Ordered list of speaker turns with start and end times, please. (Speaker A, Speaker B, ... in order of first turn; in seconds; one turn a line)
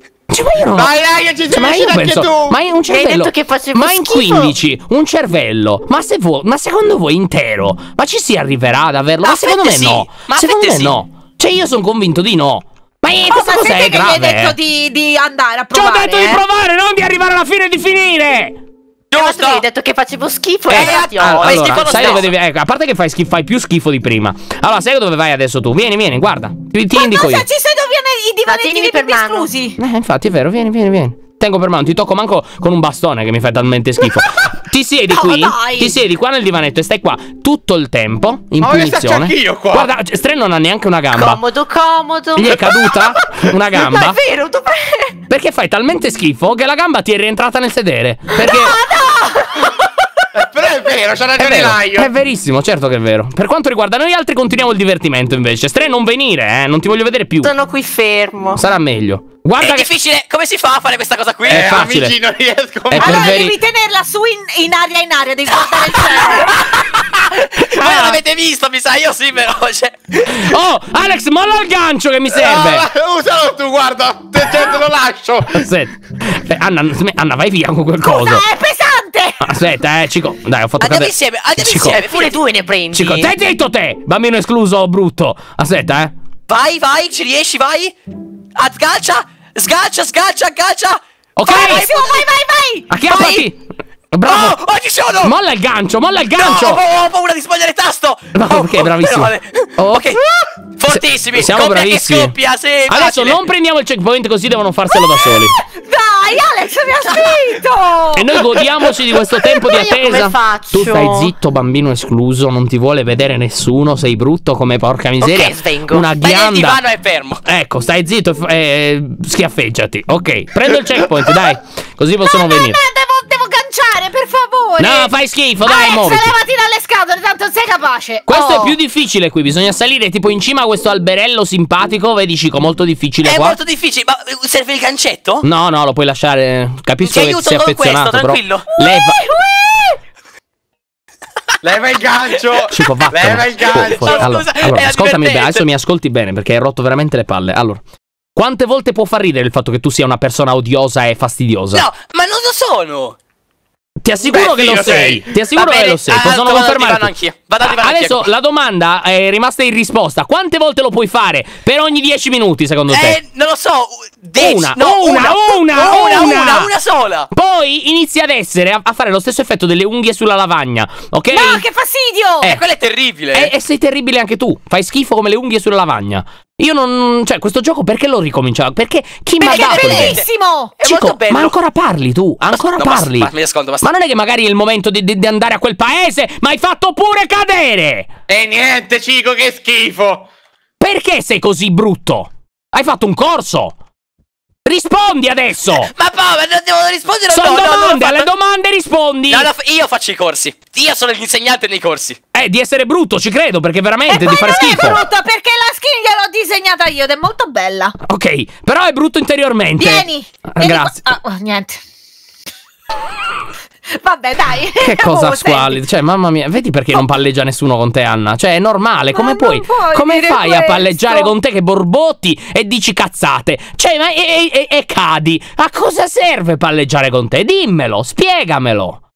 Speaker A: 0.3-0.9
Speaker B: 0.8-2.6
Speaker A: 1.5-14.6
Speaker C: 2.9-4.5
Speaker D: 9.2-11.0
Speaker E: 13.3-16.4
Speaker A: 15.7-18.6
Speaker D: 19.1-19.6
Speaker C: 19.1-22.2
Speaker A: 20.7-27.5
Speaker D: 20.7-22.3
Speaker E: 26.9-29.8
Speaker C: 28.5-29.5
Speaker A: 29.8-41.4
Speaker E: 35.1-36.0
Speaker B: 38.6-39.9
Speaker C: 41.1-45.2
Speaker A: 42.4-44.2
Speaker A: 45.3-48.8
Speaker C: 48.4-49.9
Speaker B: 50.3-52.1
Speaker A: 51.4-57.5
Speaker C: 57.4-58.6
Speaker A: 58.6-59.9
Speaker D: 59.6-61.7
Speaker B: 61.5-63.4
Speaker A: 61.5-62.2
Speaker A: 62.9-63.6
Speaker E: 63.0-66.7
Speaker D: 65.5-70.5
Speaker A: 67.8-68.2
Speaker A: 70.2-72.9
Speaker B: 72.3-75.7
Speaker A: 75.5-78.5
Speaker E: 78.0-79.5
Speaker A: 79.4-82.0
Speaker D: 80.8-82.4
Speaker C: 82.0-83.3
Speaker A: 82.9-86.1
Speaker D: 86.5-88.0
Speaker D: 88.6-92.3
Speaker A: 91.4-91.9
Speaker E: 91.5-93.2
Speaker A: 92.9-94.6
Speaker D: 93.1-93.4
Speaker D: 94.2-95.3
Speaker A: 95.2-96.8
Speaker D: 96.4-100.2
Speaker A: 98.3-100.2
Speaker D: 100.8-103.4
Speaker A: 100.9-102.3
Speaker A: 102.9-105.6
Speaker E: 105.1-108.4
Speaker A: 108.1-116.8
Speaker C: 109.5-111.3
Speaker C: 115.2-116.1
Speaker D: 116.2-117.4
Speaker A: 117.5-122.8
Speaker E: 122.2-128.8
Speaker A: 124.8-126.3
Speaker A: 128.3-133.6
Speaker D: 133.2-135.4
Speaker A: 135.4-139.3
Speaker D: 137.0-138.8
Speaker E: 139.0-139.9
Speaker B: 141.6-144.3
Speaker A: 142.7-147.8
Speaker D: 143.6-145.7
Speaker A: 148.3-151.9
Speaker D: 151.7-153.2
Speaker A: 154.0-157.1
Speaker D: 154.3-158.3
Speaker A: 157.6-163.2
Speaker D: 162.9-167.3
Speaker A: 164.4-166.7
Speaker A: 167.3-171.7
Speaker E: 171.3-172.5
Speaker D: 172.4-173.5
Speaker A: 173.3-180.2
Speaker D: 179.4-180.3
Speaker E: 179.6-180.7
Speaker D: 180.8-181.6
Speaker A: 180.8-188.1
Speaker D: 182.5-183.9
Speaker B: 188.3-190.3
Speaker A: 190.8-193.7
Speaker A: 194.7-195.9
Speaker D: 195.8-198.3
Speaker A: 197.3-199.5
Speaker D: 199.3-202.2
Speaker A: 202.3-205.0
Speaker E: 204.1-207.9
Speaker A: 208.0-211.0
Speaker E: 209.8-211.8
Speaker E: 213.9-215.8
Speaker A: 214.8-229.0
Speaker E: 219.1-221.3